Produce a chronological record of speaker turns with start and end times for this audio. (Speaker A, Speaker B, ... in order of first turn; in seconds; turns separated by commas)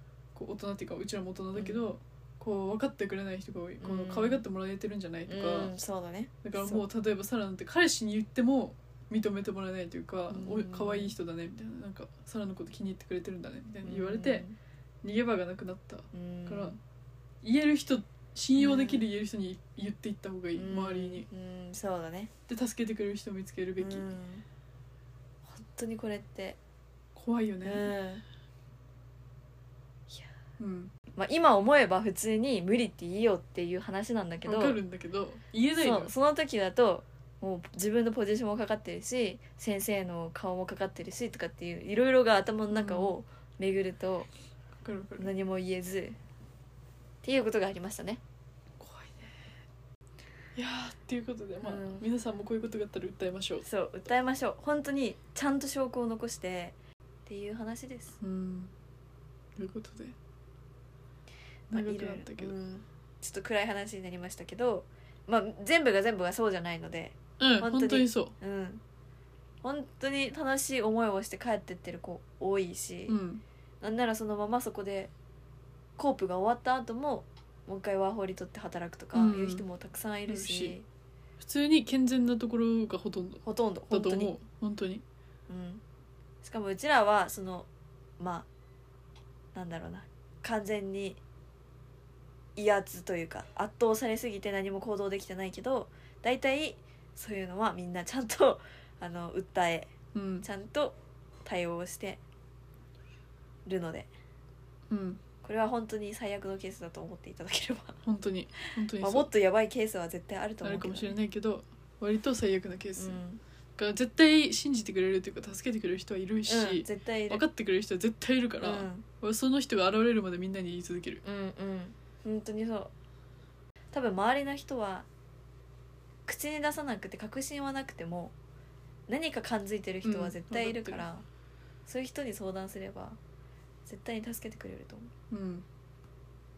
Speaker A: 0.3-5.7, Speaker B: 1.5-1.9, Speaker B: 3.8-4.4, Speaker B: 5.3-6.8, Speaker A: 6.4-14.4, Speaker B: 10.3-11.1, Speaker B: 13.8-14.5, Speaker A: 15.0-16.8, Speaker B: 16.1-16.8, Speaker A: 17.4-21.3, Speaker B: 18.6-19.1, Speaker B: 20.5-22.3, Speaker A: 22.5-24.1, Speaker B: 23.8-24.4, Speaker B: 25.5-26.6, Speaker A: 27.1-27.9, Speaker B: 27.6-28.2, Speaker A: 30.6-30.9, Speaker B: 31.2-34.8, Speaker A: 34.4-36.1, Speaker B: 35.8-44.3, Speaker A: 42.7-43.1, Speaker A: 44.8-45.3, Speaker B: 45.2-46.2, Speaker B: 47.2-48.2, Speaker A: 48.8-49.5, Speaker A: 50.5-53.6, Speaker B: 51.6-52.0, Speaker B: 53.6-56.8, Speaker B: 57.3-58.2, Speaker A: 58.2-58.7, Speaker A: 59.6-60.1, Speaker B: 61.7-68.8, Speaker A: 61.7-62.5, Speaker A: 67.4-68.3, Speaker B: 69.6-73.2, Speaker A: 73.1-73.4, Speaker B: 73.8-75.1, Speaker B: 76.0-80.8, Speaker A: 79.1-79.6, Speaker A: 80.3-80.8, Speaker A: 81.4-85.0, Speaker B: 83.4-84.3, Speaker B: 85.5-85.8, Speaker B: 86.4-87.7, Speaker B: 88.2-88.5, Speaker B: 89.5-91.2, Speaker B: 92.5-102.2, Speaker A: 100.1-100.5, Speaker B: 103.7-104.1, Speaker A: 104.9-105.2, Speaker B: 105.4-108.0, Speaker A: 108.0-109.3, Speaker B: 108.7-111.2, Speaker A: 110.6-113.2, Speaker B: 113.0-113.4, Speaker A: 113.8-121.2, Speaker B: 116.5-117.4, Speaker B: 118.6-119.0, Speaker B: 121.2-122.9, Speaker B: 123.9-125.0, Speaker B: 126.3-128.3, Speaker B: 129.1-131.2, Speaker A: 130.0-131.1, Speaker B: 131.8-133.2, Speaker B: 133.8-135.1, Speaker A: 135.3-135.7